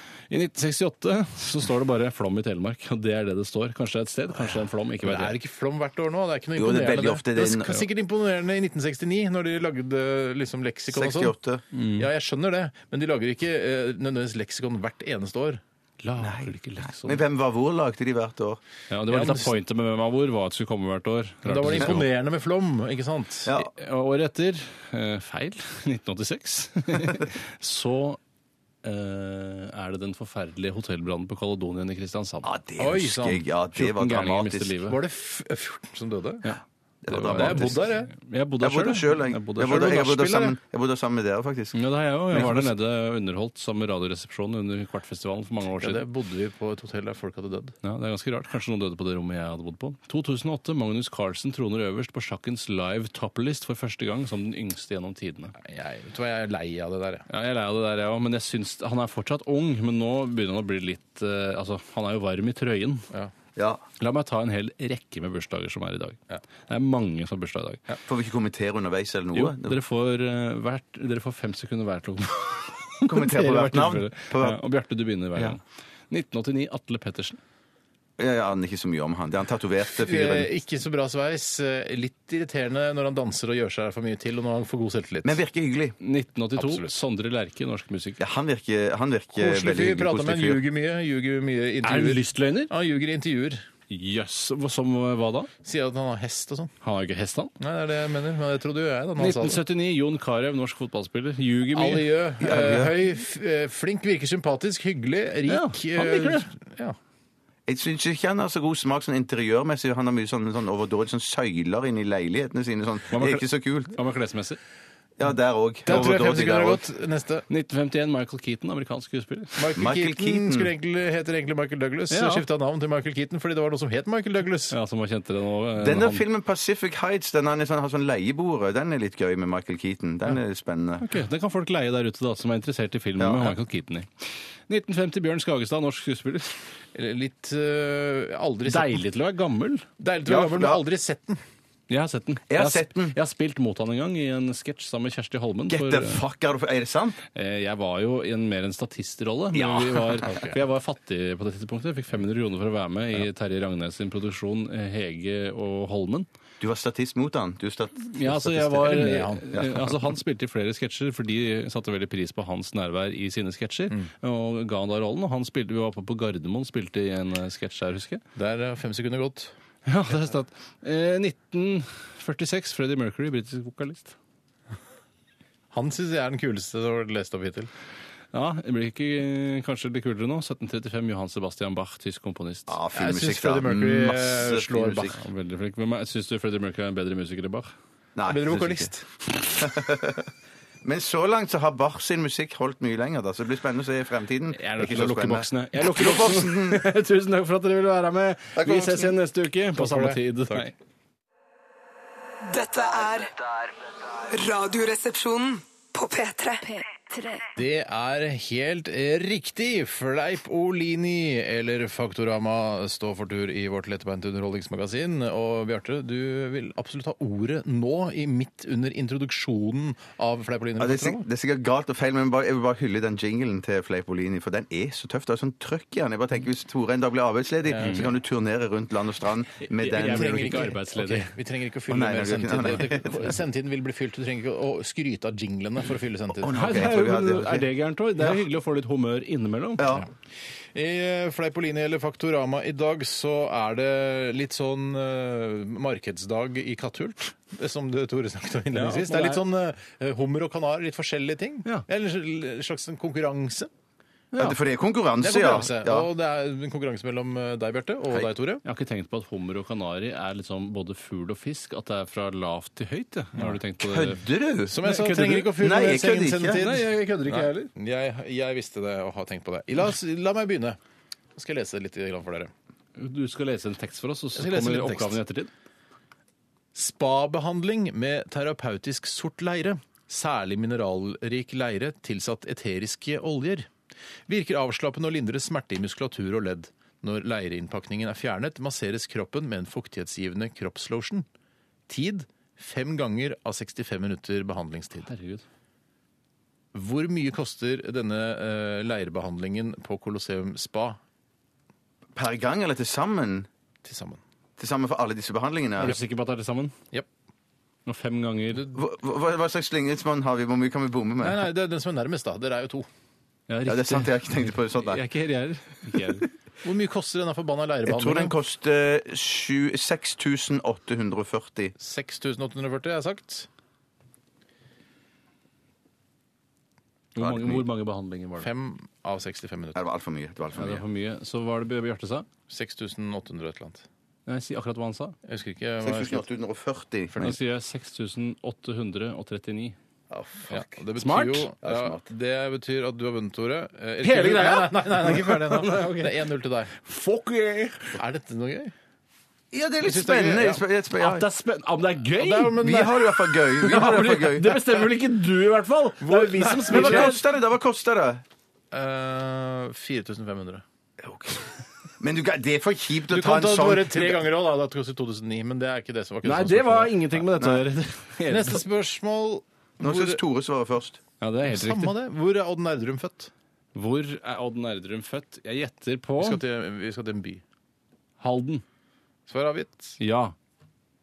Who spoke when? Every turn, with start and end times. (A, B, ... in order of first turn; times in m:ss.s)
0:00.3-0:05.3 A
0:05.0-0:11.4 B
0:06.6-0:07.8 C
0:10.9-0:11.6 C
0:11.7-0:12.1 A
0:11.9-0:15.6 B
0:16.0-0:17.2 A
0:16.2-0:18.6 C
0:18.9-0:22.1 A
0:19.1-0:19.5 B
0:21.4-0:23.5 B
0:23.5-0:23.7 C
0:23.6-0:28.2 A
0:28.8-0:32.5 A
0:32.4-0:34.8 C
0:32.8-0:33.5 B
0:33.8-0:35.0 A
0:34.9-0:36.5 B
0:36.4-0:39.8 A
0:37.0-0:37.8 C
0:37.3-0:38.1 B
0:38.6-0:41.8 C
0:39.6-0:40.6 B
0:41.7-0:46.0 A
0:42.3-0:42.7 B
0:45.8-0:47.8 B
0:47.8-0:55.6 A
0:55.6-0:57.3 B
0:57.3-1:03.1 A
1:03.6-1:03.8 C
1:04.0-1:07.9 A
1:08.1-1:09.8 C
1:09.3-1:17.4 A
1:13.0-1:14.6 C
1:18.2-1:20.5 C
1:19.8-1:25.4 B
1:25.2-1:26.0 C
1:26.0-1:28.2 A
1:28.2-1:30.6 C
1:29.4-1:33.6 B
1:31.8-1:32.7 A
1:33.9-1:35.5 A
1:35.6-1:36.7 B
1:36.8-1:37.5 A
1:37.6-1:39.6 B
1:39.2-1:42.3 A
1:41.7-1:47.0 B
1:42.4-1:42.9 C
1:45.5-1:46.5 A
1:47.7-1:54.0 C
1:53.1-1:54.6 A
1:55.2-1:56.9 C
1:55.9-1:57.4 B
1:57.5-1:59.7 A
1:59.6-2:04.8 B
1:59.8-2:00.7 C
2:02.1-2:02.4 A
2:04.7-2:06.2 A
2:05.8-2:11.1 C
2:11.0-2:16.6 A
2:13.2-2:13.6 C
2:16.9-2:19.0 B
2:18.7-2:19.9 A
2:20.0-2:21.4 B
2:20.3-2:20.8 C
2:21.9-2:26.2 A
2:22.5-2:23.2 C
2:25.7-2:27.2 C
2:27.3-2:36.3 A
2:29.5-2:30.3 C
2:30.2-2:30.6 B
2:36.6-2:38.3 C
2:38.1-2:48.2 A
2:38.3-2:39.5 B
2:48.4-2:49.5 B
2:49.9-2:54.2 A
2:55.7-2:57.7 B
2:58.3-3:02.8 A
3:02.7-3:05.2 C
3:02.9-3:05.2 B
3:05.1-3:07.7 A
3:08.2-3:08.9 C
3:08.3-3:09.1 B
3:09.5-3:10.3 C
3:10.8-3:16.8 C
3:14.5-3:20.7 A
3:18.6-3:19.1 C
3:19.8-3:20.7 B
3:22.4-3:23.3 D
3:24.3-3:27.4 D
3:27.6-3:41.2 B
3:40.8-3:50.7 C
3:47.7-3:48.1 B
3:49.6-3:51.3 A
3:49.9-3:56.6 B
3:51.9-3:53.3 C
3:56.4-3:58.4 C
3:56.5-3:59.9 A
3:59.8-4:00.1 C
4:00.7-4:13.7 B
4:08.7-4:09.4 A
4:14.3-4:14.6 A
4:14.4-4:16.1 C
4:15.2-4:18.6 B
4:18.6-4:24.2 A
4:23.8-4:24.8 C
4:24.7-4:30.8 B
4:24.8-4:25.5 A
4:25.4-4:26.7 C
4:26.5-4:27.7 A
4:31.4-4:32.5 B
4:33.0-4:35.5 A
4:34.4-4:35.2 B
4:36.8-4:43.7 B
4:44.3-4:51.3 B
4:51.9-4:55.1 B
4:55.0-4:55.4 A
4:56.7-5:01.0 B
5:02.2-5:03.5 C
5:03.8-5:04.2 B
5:04.6-5:06.0 C
5:05.8-5:06.8 A
5:07.9-5:08.7 A
5:08.7-5:11.5 C
5:11.2-5:12.9 B
5:13.5-5:16.3 A
5:13.6-5:15.0 C
5:16.6-5:18.4 B
5:17.9-5:21.8 C
5:21.8-5:23.5 B
5:27.2-5:28.5 A
5:27.2-5:27.6 C
5:28.4-5:29.8 B
5:29.8-5:30.8 C
5:30.5-5:32.3 A
5:32.5-5:33.9 B
5:34.3-5:35.2 A
5:35.3-5:36.3 B
5:35.8-5:37.2 C
5:37.1-5:37.4 B
5:37.2-5:39.8 A
5:40.1-5:40.7 C
5:40.5-5:46.7 B
5:41.0-5:41.5 A
5:41.6-5:42.0 C
5:44.0-5:48.0 A
5:48.0-5:48.7 B
5:49.5-5:51.3 C
5:49.8-5:50.6 B
5:51.0-5:52.7 A
5:52.2-5:54.0 B
5:52.6-5:54.8 C
5:53.6-5:57.2 A
5:56.0-5:57.2 B
5:56.7-5:58.2 C
5:58.7-6:00.6 B
6:01.0-6:04.2 C
6:03.1-6:07.1 B
6:06.2-6:08.6 A
6:07.4-6:07.6 C
6:08.3-6:10.2 B
6:09.8-6:11.0 C
6:11.2-6:11.9 A
6:11.4-6:13.3 B
6:13.8-6:16.4 A
6:16.2-6:17.4 B
6:18.2-6:18.6 A
6:19.3-6:20.0 B
6:20.0-6:20.4 A